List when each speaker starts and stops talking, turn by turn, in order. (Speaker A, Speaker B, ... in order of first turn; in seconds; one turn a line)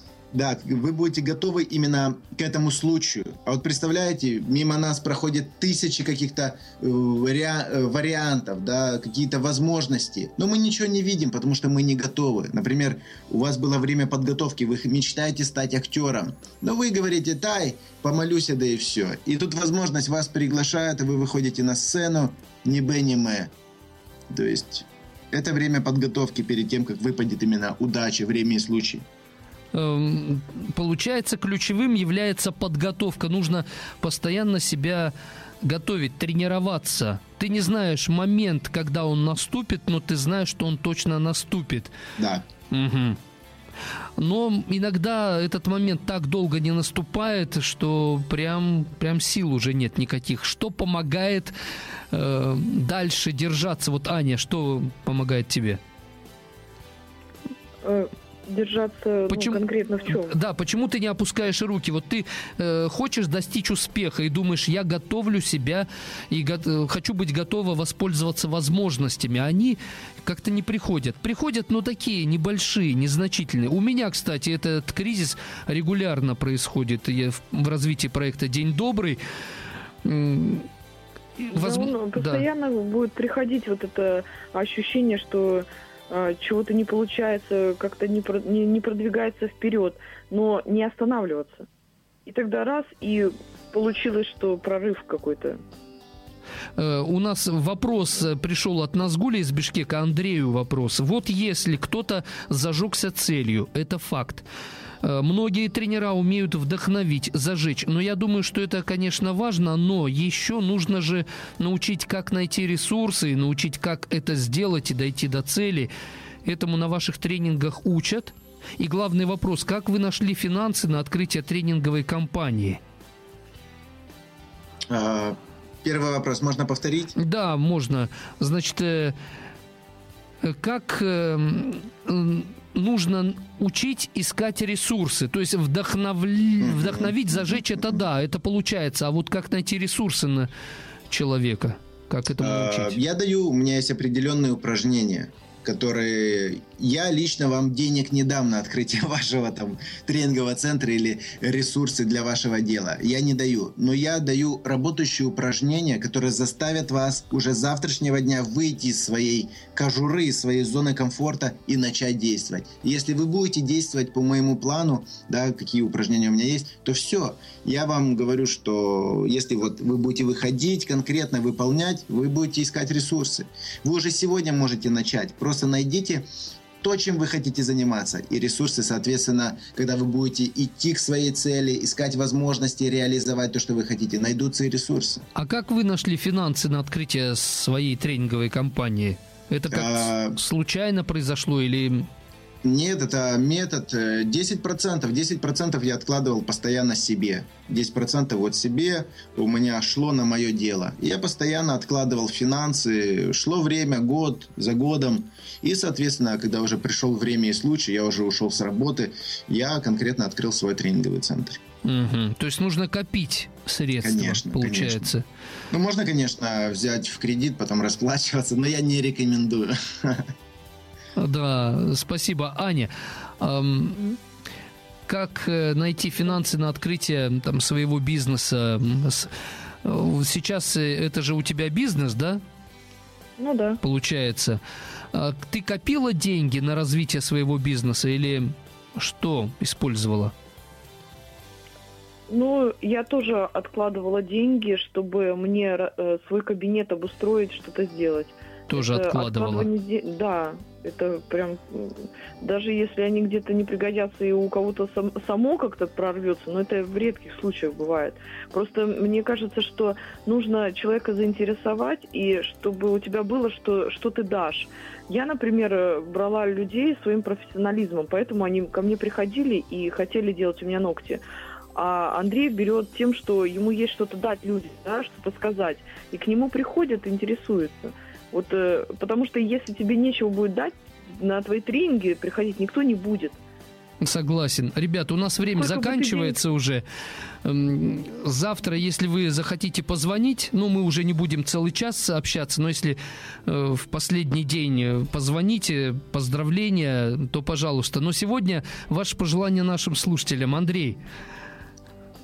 Speaker A: 0.3-23.5
Speaker A: 24.3-29.1
Speaker B: 29.7-41.9
Speaker A: 42.2-42.5
Speaker B: 42.7-43.2
Speaker B: 44.2-51.5
Speaker B: 52.1-55.8
Speaker C: 57.8-60.4
Speaker B: 59.3-59.6
Speaker B: 60.1-79.2
Speaker B: 80.0-80.7
Speaker B: 81.4-82.4
Speaker C: 81.5-91.7
Speaker C: 92.2-95.6
Speaker B: 96.8-104.4
Speaker B: 105.0-115.9
Speaker B: 116.4-122.8
Speaker A: 124.9-127.2
Speaker B: 127.2-129.1
Speaker B: 130.4-140.5
Speaker A: 136.6-138.0
Speaker B: 141.1-143.0
Speaker A: 142.4-176.3
Speaker A: 176.8-185.2
Speaker B: 185.3-192.1
Speaker A: 189.7-190.4
Speaker A: 192.6-211.6
Speaker B: 211.8-215.2
Speaker A: 214.0-215.1
Speaker A: 215.7-220.3
Speaker B: 221.2-224.0
Speaker B: 225.1-229.3
Speaker B: 229.8-232.4
Speaker C: 233.4-233.8
Speaker B: 233.8-234.6
Speaker B: 235.1-240.3
Speaker C: 242.3-271.2
Speaker B: 248.7-249.7
Speaker C: 271.7-283.4
Speaker B: 284.0-286.8
Speaker C: 285.5-286.4
Speaker B: 287.4-301.0